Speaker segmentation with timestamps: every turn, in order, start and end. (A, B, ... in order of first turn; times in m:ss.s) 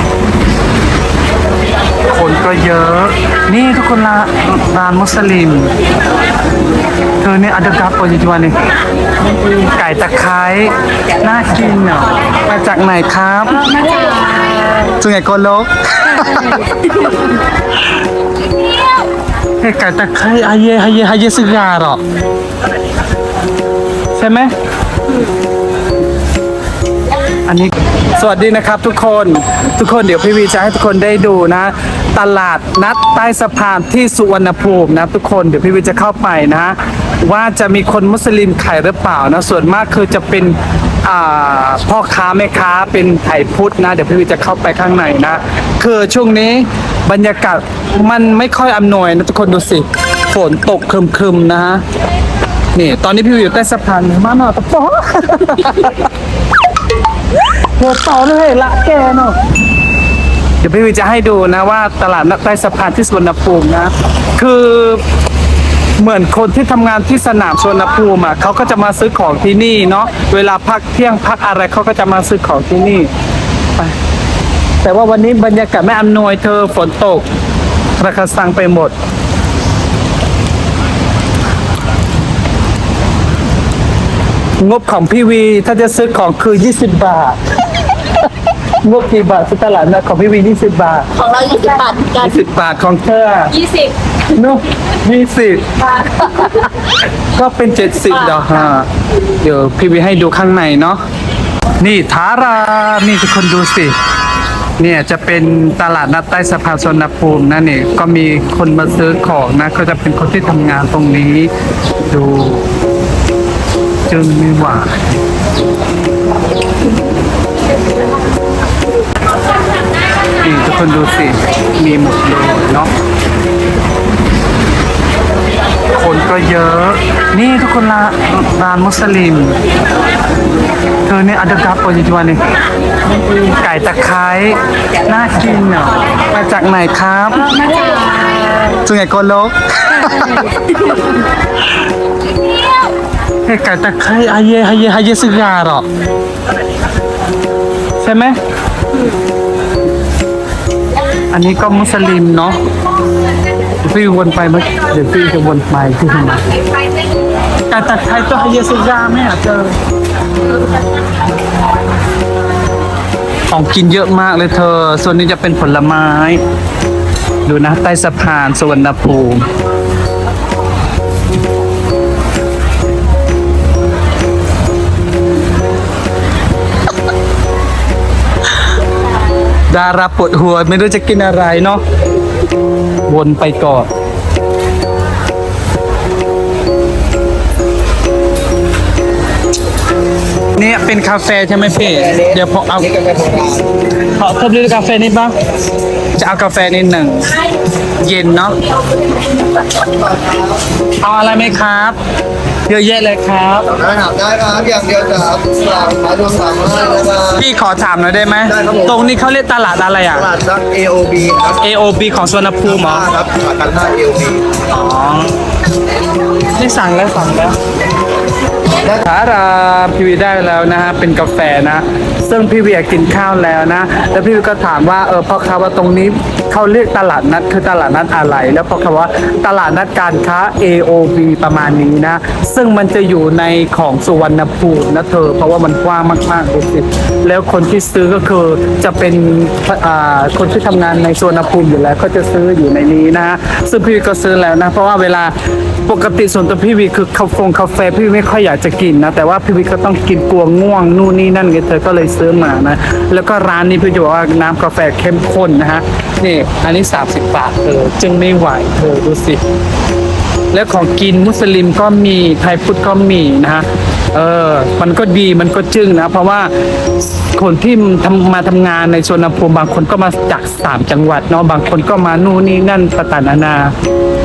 0:02.1-0:05.7 A
0:07.2-0:08.5 A
0:09.2-0:14.0 A
0:13.8-0:14.8 B
0:14.8-0:17.3 A
0:19.6-0:22.0 A
0:24.1-0:24.5 A
0:27.5-0:51.8 A
0:52.7-0:56.1 A
0:57.4-0:59.4 A
1:00.6-1:05.0 A
1:06.0-1:13.1 A
1:14.8-1:17.2 A
1:18.0-1:18.9 A
1:24.6-1:27.4 A
1:28.8-1:31.3 A
1:31.2-1:32.2 B
1:32.0-1:33.7 A
1:33.6-1:33.9 B
1:34.2-1:41.0 A
1:41.8-1:44.0 A
1:44.8-1:52.7 A
1:54.1-1:54.9 A
2:00.4-2:02.9 A
2:05.9-2:09.6 A
2:11.0-2:12.4 A
2:13.1-2:17.7 A
2:17.6-2:18.7 B
2:18.7-2:21.0 A
2:23.4-2:25.9 A
2:28.0-2:28.4 A
2:31.3-2:32.6 A
2:33.8-2:36.5 A
2:37.7-2:39.8 A
2:43.5-2:46.4 A
2:47.4-2:49.5 A
2:59.7-3:01.8 A
3:03.1-3:03.9 A
3:10.6-3:13.0 A
3:12.9-3:13.7 C
3:14.0-3:15.4 A
3:16.2-3:17.4 A
3:18.0-3:18.6 A
3:21.0-3:22.0 A
3:22.7-3:23.8 A
3:23.7-3:27.3 C
3:27.2-3:30.4 A
3:30.3-3:31.6 C
3:31.5-3:33.1 A
3:33.0-3:34.5 C
3:34.7-3:35.4 A
3:36.4-3:37.6 A
3:38.8-4:19.4 A
4:20.5-4:26.5 A
4:27.3-4:33.8 A